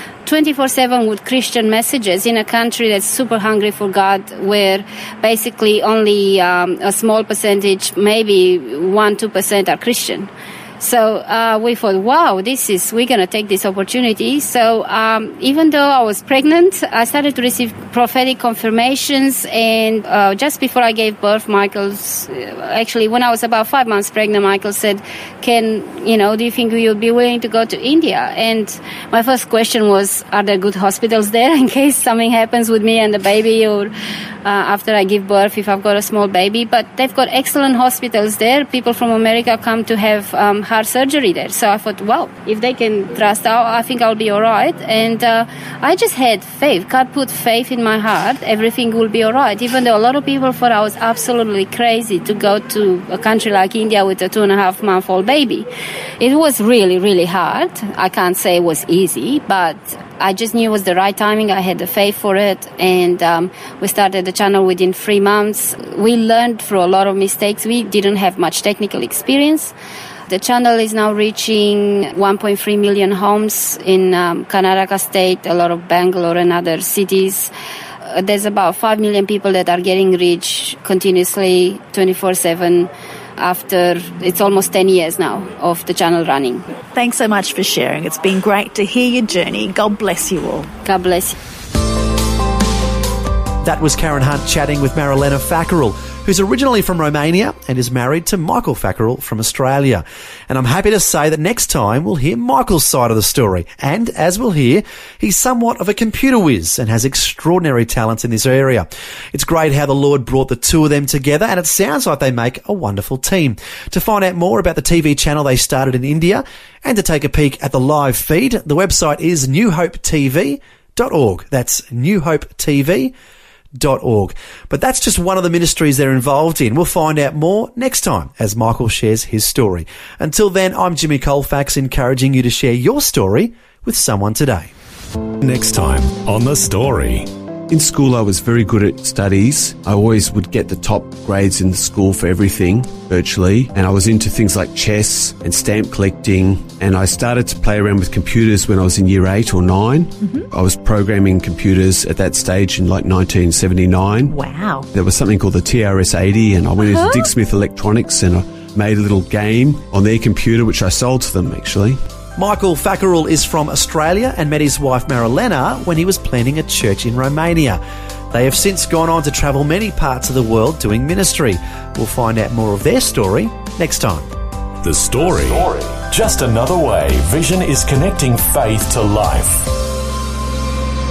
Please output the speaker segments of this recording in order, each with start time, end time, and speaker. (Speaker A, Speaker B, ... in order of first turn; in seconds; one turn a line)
Speaker A: 0.2-33.9
Speaker A: 34.4-55.7
Speaker A: 56.2-69.7
Speaker A: 70.3-77.5
Speaker A: 78.1-86.6
Speaker B: 86.9-90.7
Speaker A: 90.8-91.4
Speaker C: 93.6-123.1
Speaker C: 123.7-134.7
Speaker D: 135.4-137.3
Speaker E: 137.7-154.3
Speaker B: 154.3-154.9
Speaker E: 154.9-162.0
Speaker B: 156.8-157.3
Speaker C: 162.3-174.2
Speaker D: 174.8-179.7